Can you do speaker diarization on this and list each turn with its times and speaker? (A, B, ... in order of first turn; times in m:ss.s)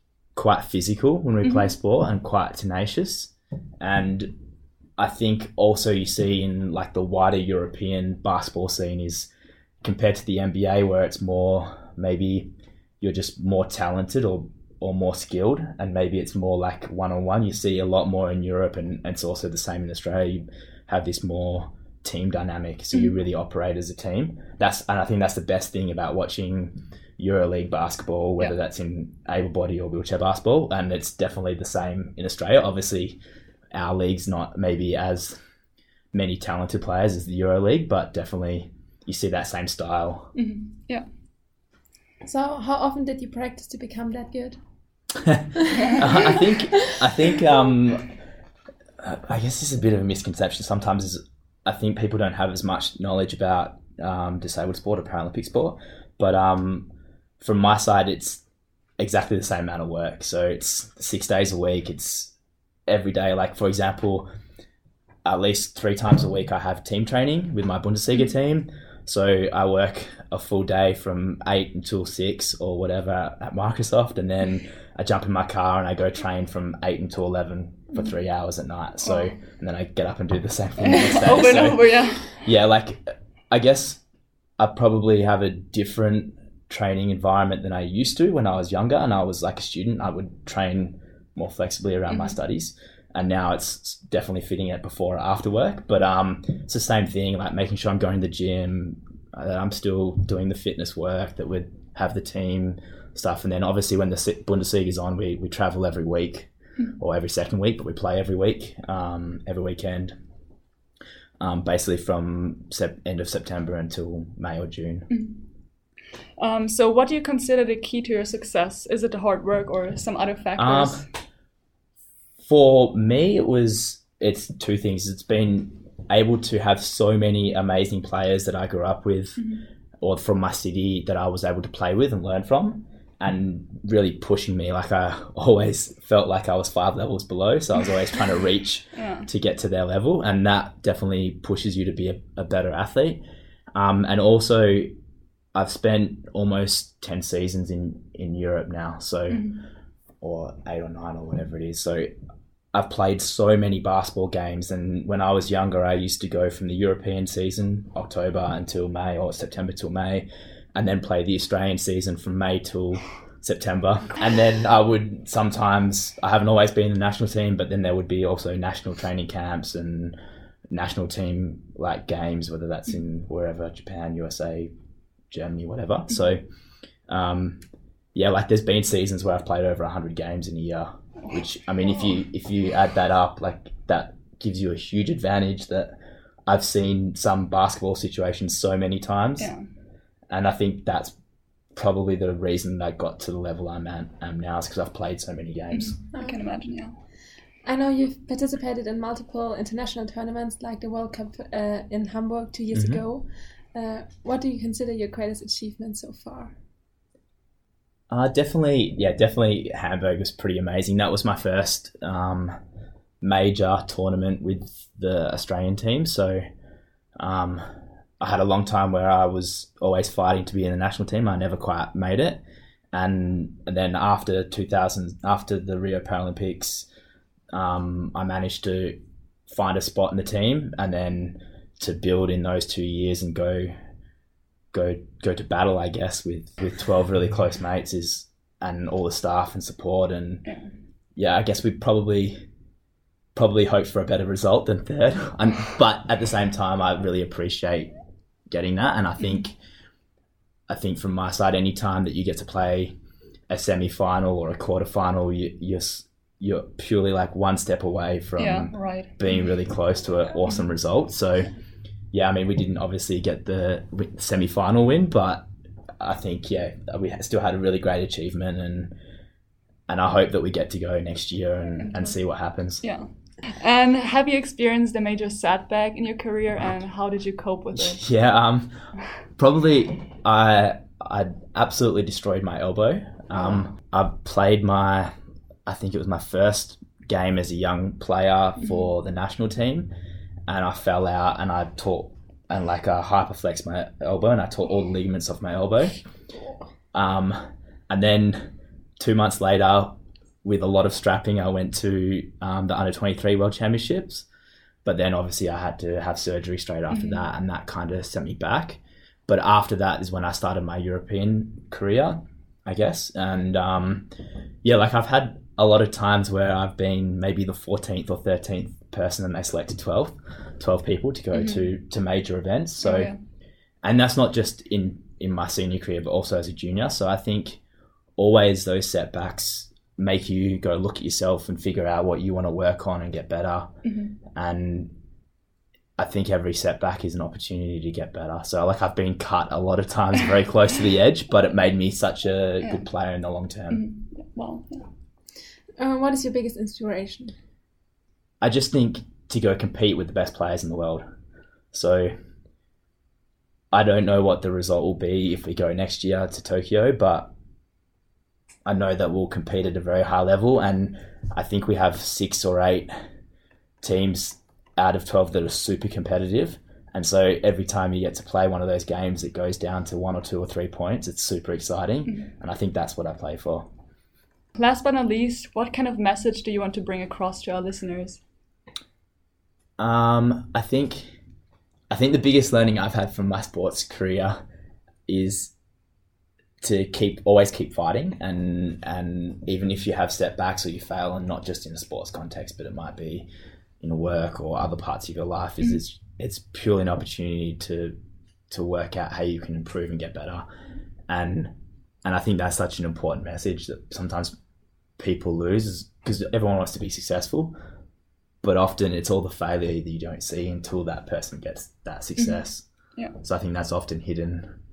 0:00.3-0:04.3 A
0:01.4-0:01.7 B
0:05.0-0:09.3 A
0:09.8-0:33.2 A
0:33.7-0:35.4 A
0:36.1-0:40.3 A
0:40.4-0:41.0 B
0:42.2-0:44.6 C
0:45.2-0:48.1 A
0:45.7-0:46.0 C
0:49.0-0:56.9 A
0:57.4-0:58.4 A
0:59.0-1:02.3 A
1:02.9-1:04.3 A
1:05.2-1:24.0 A
1:20.8-1:22.4 B
1:24.6-1:50.1 A
1:32.1-1:32.4 B
1:51.4-1:55.1 A
1:55.1-1:55.4 B
1:56.4-2:01.0 B
2:00.6-2:01.1 A
2:02.4-2:09.5 A
2:10.0-2:23.2 A
2:19.0-2:19.3 B
2:23.7-2:24.9 A
2:25.5-2:29.5 A
2:29.3-2:29.6 B
2:30.2-2:32.1 A
2:32.7-2:50.2 A
2:50.7-2:54.7 A
2:55.3-2:56.4 A
2:57.1-2:57.6 A
2:58.1-3:06.0 A
3:06.5-3:09.5 A
3:09.4-3:09.6 B
3:10.3-3:11.1 A
3:11.7-3:16.0 A
3:15.7-3:16.9 B
3:16.1-3:16.4 C
3:17.6-3:26.5 C
3:22.7-3:23.0 A
3:28.1-3:32.5 A
3:33.2-3:36.4 A
3:37.2-3:37.6 A
3:38.2-3:42.4 A
3:42.9-3:46.9 A
3:47.5-3:53.7 A
3:54.7-4:00.5 A
4:01.2-4:02.4 A
4:03.3-4:07.9 A
4:08.5-4:09.5 A
4:10.7-4:12.9 A
4:13.5-4:21.5 A
4:18.4-4:19.2 B
4:22.1-4:25.4 A
4:26.0-4:28.9 A
4:29.9-4:32.8 A
4:31.8-4:32.1 B
4:32.8-4:38.0 B
4:37.8-4:38.8 A
4:39.4-4:45.1 A
4:45.7-4:49.9 A
4:50.5-4:56.0 A
4:56.9-5:04.2 A
5:04.8-5:14.1 A
5:06.9-5:07.2 B
5:14.6-5:23.1 A
5:21.3-5:21.7 B
5:22.8-5:23.2 B
5:23.8-5:27.6 A
5:28.2-5:33.7 A
5:33.8-5:34.1 B
5:34.3-5:34.9 A
5:36.0-5:43.8 A
5:43.7-5:44.9 B
5:45.8-5:47.3 C
5:48.4-5:51.0 A
5:51.7-5:52.1 A
5:53.7-5:57.3 A
5:58.6-6:02.9 A
6:03.8-6:13.6 A
6:14.5-6:18.2 B
6:19.8-6:21.2 A
6:21.9-6:24.4 A
6:25.1-6:25.5 A
6:26.6-6:33.3 A
6:33.8-6:38.0 A
6:38.5-6:40.4 A
6:41.1-6:41.5 A
6:42.0-6:44.3 A
6:45.0-6:47.5 A
6:48.4-6:52.7 A
6:52.2-6:52.4 B
6:53.2-6:54.5 A